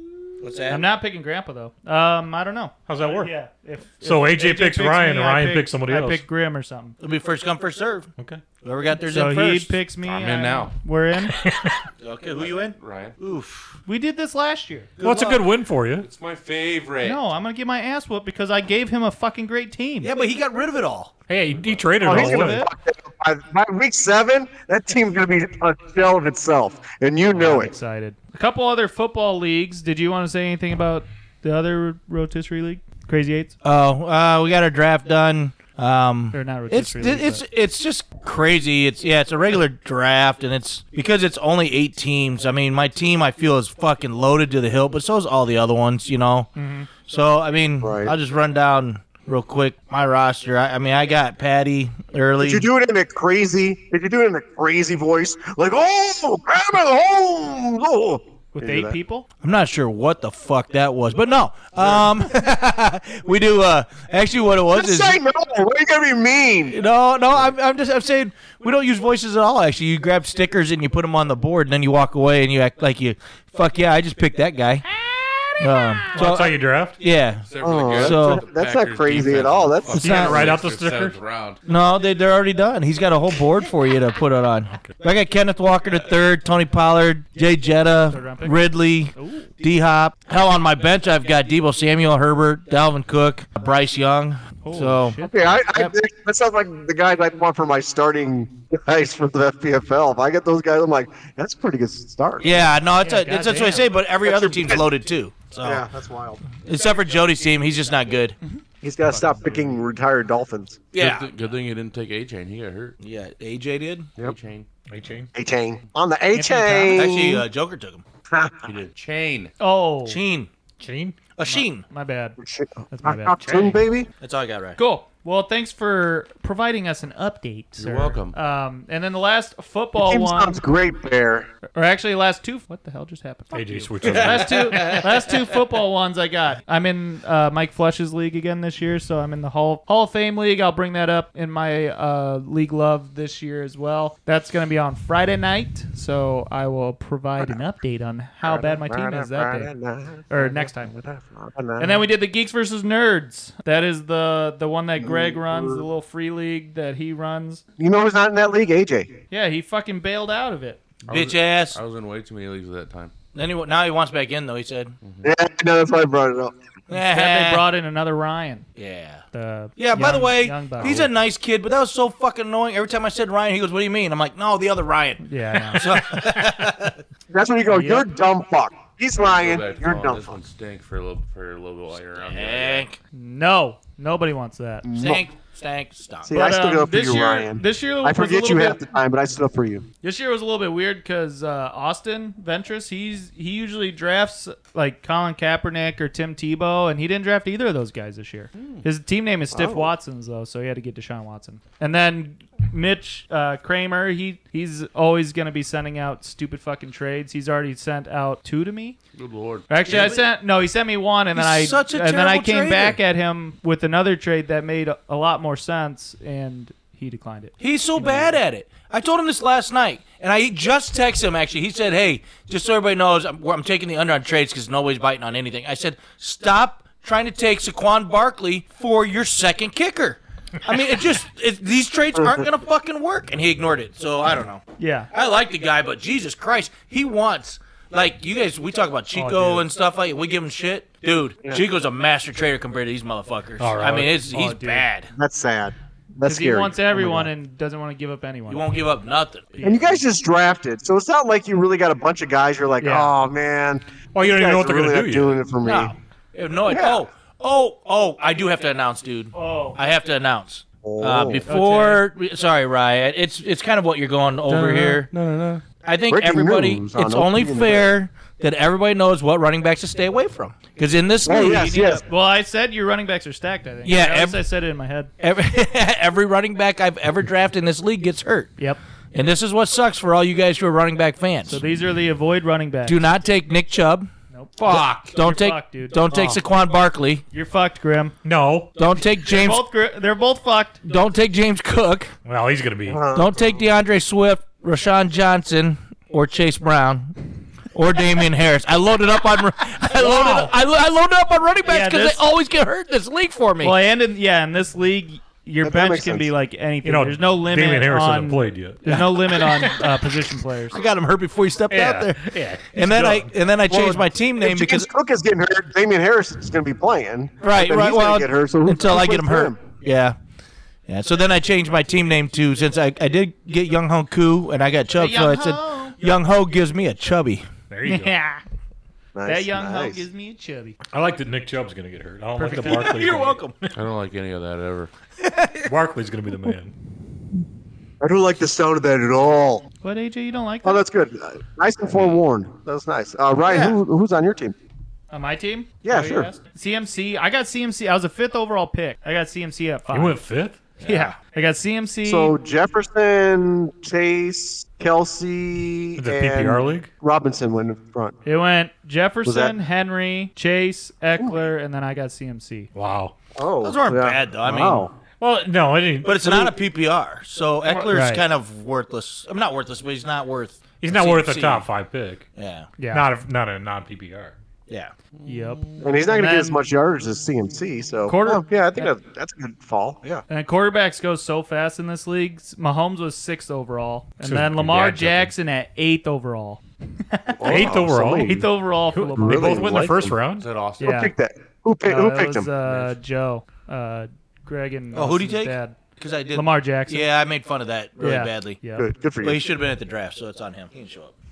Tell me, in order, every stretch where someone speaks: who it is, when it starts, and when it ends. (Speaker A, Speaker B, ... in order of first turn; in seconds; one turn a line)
Speaker A: 0.4-0.8
Speaker B: 0.7-7.0
Speaker C: 2.9-3.3
Speaker C: 4.0-6.2
Speaker A: 7.0-8.1
Speaker A: 8.6-9.7
Speaker B: 9.0-11.3
Speaker D: 10.0-10.7
Speaker C: 11.3-11.7
Speaker A: 12.0-13.7
Speaker D: 12.8-13.2
Speaker B: 13.8-14.9
Speaker C: 15.0-16.1
Speaker A: 15.0-15.3
Speaker D: 16.0-17.2
Speaker B: 17.0-20.1
Speaker A: 20.0-21.1
Speaker C: 21.3-22.6
Speaker B: 22.0-22.7
Speaker E: 22.0-27.7
Speaker B: 27.3-33.5
Speaker A: 33.6-46.5
Speaker B: 36.3-37.4
Speaker B: 46.5-46.9
Speaker A: 47.1-52.6
Speaker E: 47.8-48.1
Speaker E: 52.4-59.0
Speaker B: 58.5-59.3
Speaker A: 59.4-65.2
Speaker E: 64.7-66.8
Speaker A: 66.7-74.8
Speaker A: 75.6-78.4
Speaker C: 76.1-77.0
Speaker D: 77.4-81.6
Speaker E: 77.6-80.3
Speaker C: 80.0-81.2
Speaker A: 80.0-80.3
Speaker A: 81.7-95.2
Speaker B: 88.1-88.6
Speaker B: 89.1-89.5
Speaker B: 94.6-95.6
Speaker E: 95.2-102.6
Speaker A: 102.4-105.8
Speaker B: 103.0-103.8
Speaker E: 104.2-104.9
Speaker E: 105.6-106.4
Speaker A: 106.6-108.4
Speaker B: 108.4-109.7
Speaker E: 108.8-110.8
Speaker A: 110.9-111.3
Speaker D: 111.0-112.9
Speaker A: 113.0-114.1
Speaker D: 114.2-114.7
Speaker C: 114.9-115.3
Speaker E: 115.3-117.4
Speaker B: 116.3-117.0
Speaker A: 116.9-118.0
Speaker E: 118.3-118.7
Speaker D: 118.6-119.5
Speaker B: 119.6-120.2
Speaker A: 120.0-120.5
Speaker C: 120.8-121.2
Speaker A: 121.3-121.8
Speaker B: 121.5-122.4
Speaker E: 122.4-124.1
Speaker B: 122.9-123.8
Speaker A: 124.2-124.8
Speaker B: 124.8-130.6
Speaker D: 127.8-128.3
Speaker E: 129.9-131.5
Speaker B: 131.7-149.7
Speaker C: 133.5-135.0
Speaker E: 148.4-152.1
Speaker B: 150.3-150.9
Speaker B: 151.8-157.6
Speaker E: 155.0-155.8
Speaker E: 157.8-159.1
Speaker B: 159.3-160.8
Speaker D: 161.1-163.1
Speaker A: 161.1-161.8
Speaker A: 163.3-164.9
Speaker E: 165.2-166.5
Speaker A: 166.9-167.6
Speaker B: 166.9-168.7
Speaker A: 168.8-169.2
Speaker B: 169.3-171.0
Speaker A: 169.8-176.9
Speaker B: 175.2-175.8
Speaker E: 177.3-180.4
Speaker B: 177.7-178.1
Speaker D: 179.2-182.8
Speaker A: 182.2-183.0
Speaker B: 183.1-184.9
Speaker E: 184.8-185.2
Speaker A: 184.9-186.4
Speaker E: 186.2-189.8
Speaker B: 186.3-188.8
Speaker B: 190.0-209.0
Speaker E: 199.5-199.9
Speaker D: 209.1-209.7
Speaker B: 209.7-218.3
Speaker A: 209.8-210.3
Speaker A: 211.3-213.0
Speaker A: 217.6-245.1
Speaker B: 234.8-235.1
Speaker B: 239.1-239.7
Speaker C: 243.6-244.2
Speaker B: 244.3-244.8
Speaker E: 245.1-247.3
Speaker B: 246.2-248.7
Speaker A: 248.5-249.8
Speaker B: 249.6-249.9
Speaker E: 249.6-255.9
Speaker B: 252.8-253.1
Speaker C: 254.1-255.4
Speaker A: 255.6-265.1
Speaker E: 256.6-257.0
Speaker B: 259.3-259.8
Speaker E: 260.8-261.4
Speaker B: 261.5-262.0
Speaker D: 264.4-265.6
Speaker A: 265.8-272.0
Speaker E: 266.1-267.9
Speaker E: 271.2-272.0
Speaker B: 272.1-275.1
Speaker A: 273.8-274.4
Speaker A: 275.2-278.5
Speaker A: 279.1-281.6
Speaker B: 281.4-283.0
Speaker A: 282.9-287.2
Speaker B: 284.3-286.0
Speaker E: 286.1-286.4
Speaker B: 287.3-288.1
Speaker C: 288.2-288.7
Speaker A: 288.8-289.6
Speaker B: 289.2-290.8
Speaker A: 290.8-292.1
Speaker C: 292.2-293.0
Speaker E: 292.9-293.4
Speaker A: 293.1-297.1
Speaker A: 297.7-303.8
Speaker C: 299.9-300.5
Speaker B: 301.6-302.2
Speaker B: 303.6-310.8
Speaker E: 305.6-306.3
Speaker C: 306.8-309.8
Speaker A: 308.8-309.2
Speaker A: 310.7-314.9
Speaker C: 311.7-313.3
Speaker E: 313.7-319.6
Speaker A: 317.4-320.1
Speaker A: 320.9-327.4
Speaker B: 324.9-326.0
Speaker C: 327.7-328.1
Speaker B: 327.9-328.4
Speaker E: 329.1-330.0
Speaker B: 329.2-330.8
Speaker C: 330.9-333.7
Speaker B: 332.4-333.0
Speaker A: 332.5-333.5
Speaker D: 333.7-334.9
Speaker A: 335.2-335.7
Speaker C: 335.7-336.7
Speaker E: 338.0-339.6
Speaker B: 339.8-340.8
Speaker E: 340.6-344.6
Speaker A: 343.4-343.8
Speaker B: 345.1-350.2
Speaker E: 345.8-346.3
Speaker C: 349.9-350.6
Speaker A: 350.8-351.1
Speaker B: 350.8-352.3
Speaker E: 352.0-358.1
Speaker C: 355.9-356.9
Speaker B: 358.2-362.7
Speaker E: 359.2-359.6
Speaker E: 361.2-361.4
Speaker C: 362.7-363.1
Speaker E: 363.4-364.9
Speaker A: 363.6-364.9
Speaker C: 365.2-366.5
Speaker A: 366.0-371.7
Speaker B: 367.9-368.2
Speaker C: 370.8-372.3
Speaker A: 372.4-372.7
Speaker B: 372.8-373.0
Speaker C: 372.9-374.3
Speaker D: 375.1-375.9
Speaker B: 375.2-376.6
Speaker E: 375.8-380.2
Speaker B: 378.1-378.9
Speaker B: 380.3-389.9
Speaker C: 384.2-385.3
Speaker E: 387.4-388.4
Speaker C: 387.4-390.5
Speaker E: 389.1-390.1
Speaker D: 390.4-390.9
Speaker B: 390.8-391.1
Speaker E: 390.8-392.5
Speaker B: 391.8-395.8
Speaker D: 392.6-392.9
Speaker A: 394.9-398.6
Speaker B: 396.3-397.1
Speaker B: 398.0-398.9
Speaker E: 398.8-399.4
Speaker A: 399.2-401.1